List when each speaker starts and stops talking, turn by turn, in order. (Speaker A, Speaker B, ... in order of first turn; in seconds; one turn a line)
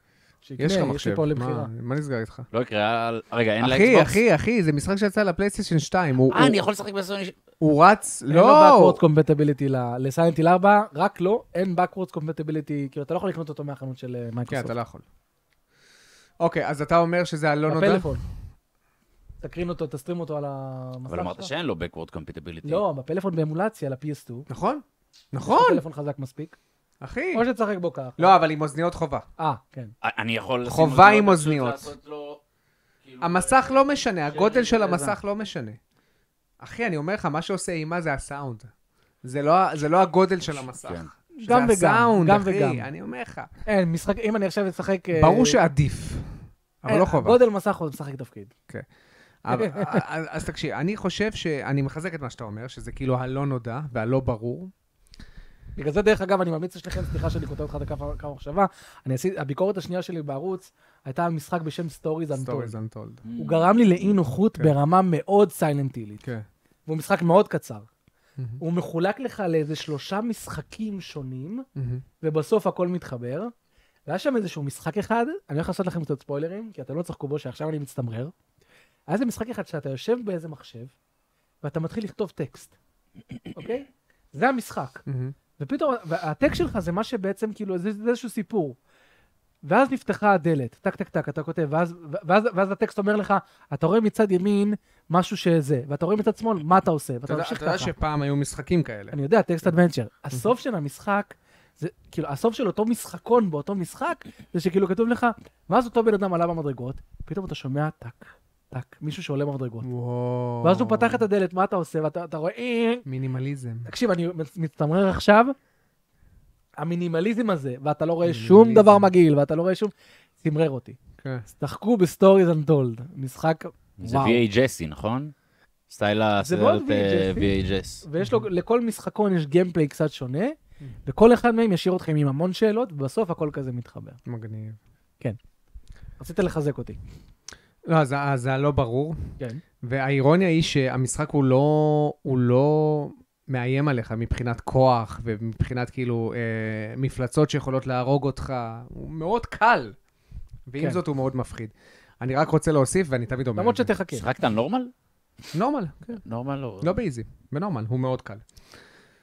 Speaker A: 0.4-1.7
Speaker B: 0.6-2.5
Speaker C: 2.5-4.2
Speaker B: 3.6-6.6
Speaker C: 6.3-7.3
Speaker B: 7.6-9.0
Speaker A: 8.3-14.7
Speaker B: 14.5-15.0
Speaker B: 16.4-18.1
Speaker A: 17.7-18.2
Speaker A: 19.4-21.5
Speaker C: 21.1-22.8
Speaker A: 22.6-24.5
Speaker B: 24.5-25.8
Speaker A: 25.4-26.6
Speaker B: 27.0-27.4
Speaker A: 27.3-28.4
Speaker B: 28.2-29.2
Speaker A: 29.4-29.9
Speaker C: 30.0-32.4
Speaker B: 30.6-31.9
Speaker C: 33.0-35.1
Speaker B: 33.2-35.8
Speaker B: 36.6-38.7
Speaker B: 39.2-43.5
Speaker C: 40.7-41.1
Speaker A: 41.3-42.9
Speaker A: 43.6-45.6
Speaker B: 45.1-47.4
Speaker A: 46.9-48.5
Speaker B: 49.4-54.7
Speaker A: 49.5-50.0
Speaker A: 55.8-62.8
Speaker B: 62.3-63.2
Speaker C: 63.2-63.8
Speaker A: 63.4-66.2
Speaker A: 66.9-67.9
Speaker A: 68.6-71.7
Speaker B: 71.8-72.0
Speaker A: 72.2-73.5
Speaker A: 74.1-78.3
Speaker A: 79.1-80.9
Speaker A: 81.6-82.7
Speaker A: 83.5-85.0
Speaker B: 85.1-85.3
Speaker A: 85.6-88.8
Speaker A: 89.6-97.9
Speaker B: 97.3-99.2
Speaker A: 99.1-109.9
Speaker B: 109.8-111.2
Speaker A: 110.6-113.0
Speaker B: 113.0-113.9
Speaker A: 113.8-115.5
Speaker A: 116.8-121.0
Speaker B: 118.2-119.1
Speaker B: 121.2-121.5
Speaker A: 121.5-124.4
Speaker C: 124.0-125.3
Speaker C: 125.9-128.0
Speaker A: 126.4-127.5
Speaker A: 128.0-134.2
Speaker B: 134.2-134.8
Speaker A: 136.2-137.0
Speaker B: 137.9-149.9
Speaker B: 150.7-153.9
Speaker A: 153.6-154.2
Speaker C: 154.1-154.9
Speaker B: 155.5-156.2
Speaker C: 156.2-157.0
Speaker B: 156.8-158.4